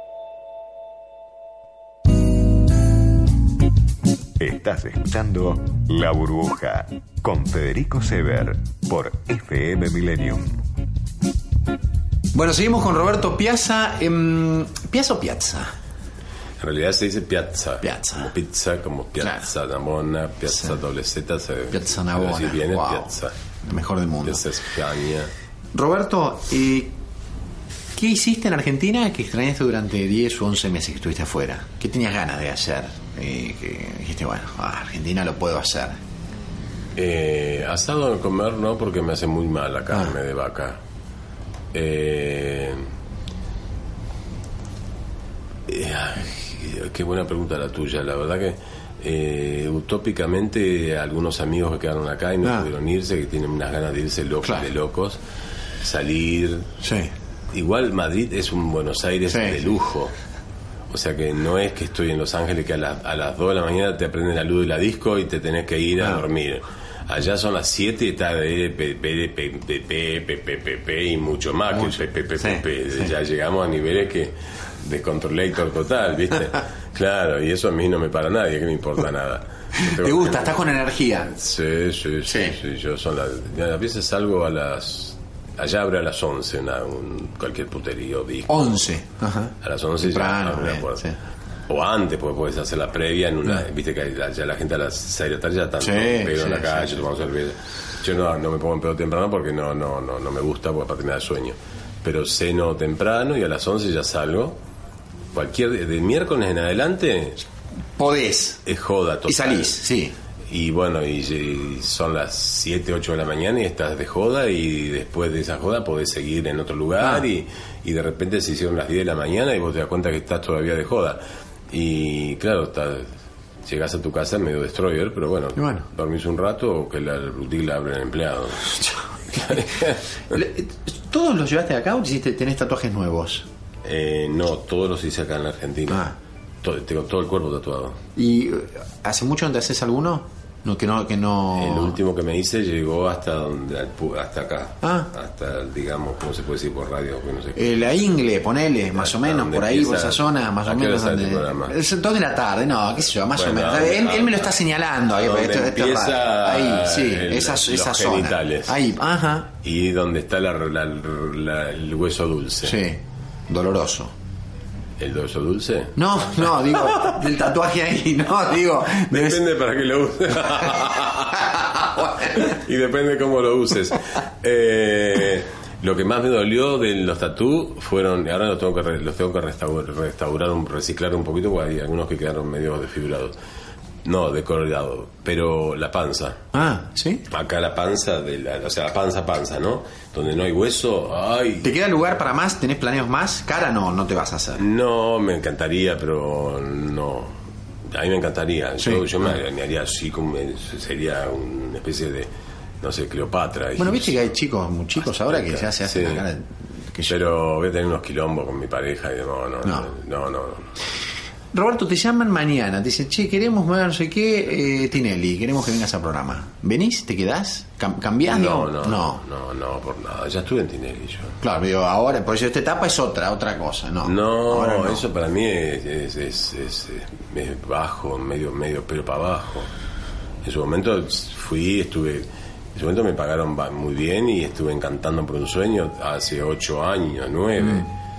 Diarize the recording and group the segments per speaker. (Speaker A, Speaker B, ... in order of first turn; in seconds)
Speaker A: 4.4-10.6
Speaker B: 12.3-15.7, 17.8-18.3, 19.2-19.5, 20.5-20.7, 21.7-23.1, 23.6-24.5, 25.7-26.9, 27.9-36.0, 54.4-54.7, 56.8-57.1, 59.3-59.6, 71.7-73.1, 79.8-81.3, 82.2-82.6, 88.5-91.2, 95.8-97.0, 108.0-108.6, 109.3-110.1, 117.0-117.2, 125.5-125.9, 128.8-129.7, 130.3-133.5, 135.9-136.2, 138.1-142.0, 144.8-145.1, 147.6-159.5, 162.6-164.1, 165.9-169.4, 171.5-172.3, 186.5-187.2, 191.6-194.6, 198.8-199.3, 203.8-207.2, 209.6-209.9, 211.5-219.2, 221.4-225.0
Speaker C: 16.6-23.3, 24.2-25.3, 37.0-40.8, 41.7-42.9, 45.7-55.2, 55.8-56.7, 57.5-60.1, 60.9-80.7, 81.3-88.8, 89.6-91.0, 91.7-104.6, 105.3-107.4, 108.6-109.8, 110.5-123.1, 123.6-130.0, 133.8-136.1, 136.6-138.0, 141.6-148.0, 148.9-151.8, 153.3-154.6, 155.1-158.8, 159.6-162.8, 165.0-166.6, 169.1-183.3, 184.0-186.5, 187.3-191.7, 194.6-197.3, 197.9-202.3, 202.8-204.1, 205.0-206.2, 207.1-210.7, 218.2-221.4, 224.0-229.7, 230.4-237.9